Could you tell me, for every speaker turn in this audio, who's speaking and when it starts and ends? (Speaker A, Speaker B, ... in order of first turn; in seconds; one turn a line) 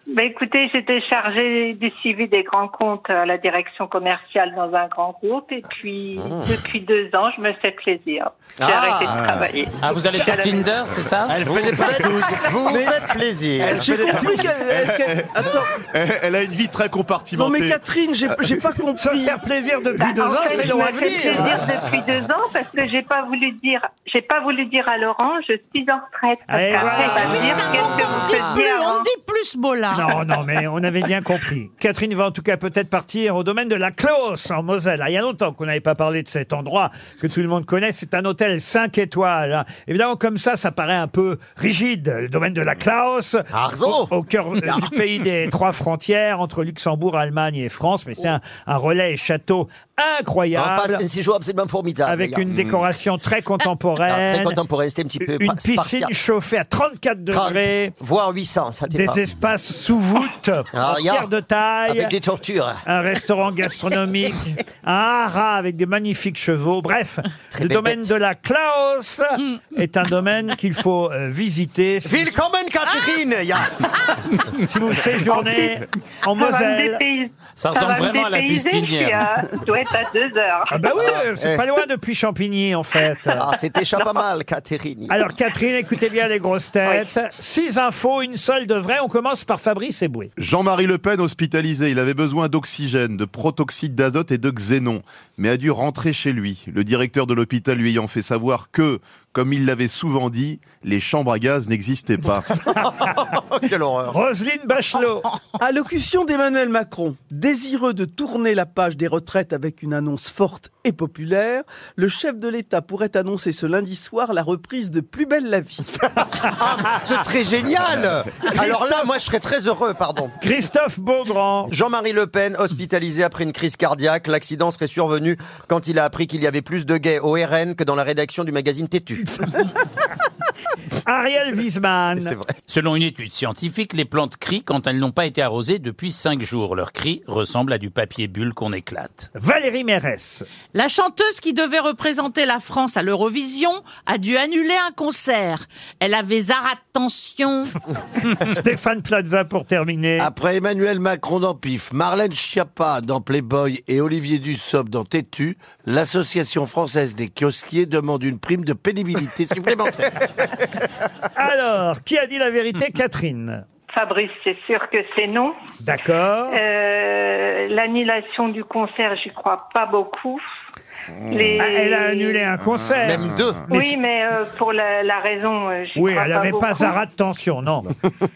Speaker A: 0.1-10.7
Speaker B: 6.2-6.5
Speaker B: 8.6-9.4
Speaker C: 9.8-11.4
Speaker D: 11.2-12.5
Speaker B: 11.4-13.9
Speaker A: 12.2-12.6
Speaker D: 13.6-14.5
Speaker E: 13.7-15.7
Speaker F: 14.1-18.7
Speaker E: 17.3-19.4
Speaker G: 19.0-21.6
Speaker A: 20.0-29.1
Speaker G: 26.5-28.1
Speaker H: 27.0-30.2
Speaker G: 29.9-51.0
Speaker B: 43.5-44.9
Speaker B: 50.5-52.5
Speaker G: 52.0-54.6
Speaker F: 52.5-52.8
Speaker B: 54.0-56.1
Speaker G: 55.2-57.9
Speaker B: 57.3-59.2
Speaker G: 58.9-62.1
Speaker B: 60.7-61.3
Speaker B: 61.9-62.8
Speaker G: 62.8-72.4
Speaker B: 67.5-68.1
Speaker B: 72.0-74.1
Speaker G: 74.6-77.0
Speaker A: 75.3-75.7
Speaker A: 76.3-81.1
Speaker C: 77.5-79.2
Speaker G: 80.7-83.4
Speaker B: 81.0-81.6
Speaker B: 83.3-85.2
Speaker G: 85.1-90.3
Speaker F: 90.4-102.5
Speaker G: 102.7-103.1
Speaker B: 102.7-104.2
Speaker G: 104.1-105.3
Speaker E: 105.6-116.0
Speaker B: 116.5-120.3
Speaker G: 118.5-119.1
Speaker G: 120.4-121.7
Speaker B: 121.7-129.4
Speaker G: 131.0-132.3
Speaker B: 132.2-132.5
Speaker C: 132.7-139.3
Speaker G: 139.3-140.4
Speaker H: 140.7-147.7
Speaker G: 148.2-150.3
Speaker D: 150.2-160.3
Speaker G: 161.2-163.6
Speaker A: 163.9-165.5
Speaker G: 165.8-166.6
Speaker A: 166.5-170.4
Speaker A: 171.3-172.5
Speaker G: 171.6-173.9
Speaker F: 172.7-173.6
Speaker B: 173.0-173.6
Speaker A: 173.7-177.0
Speaker G: 175.9-177.9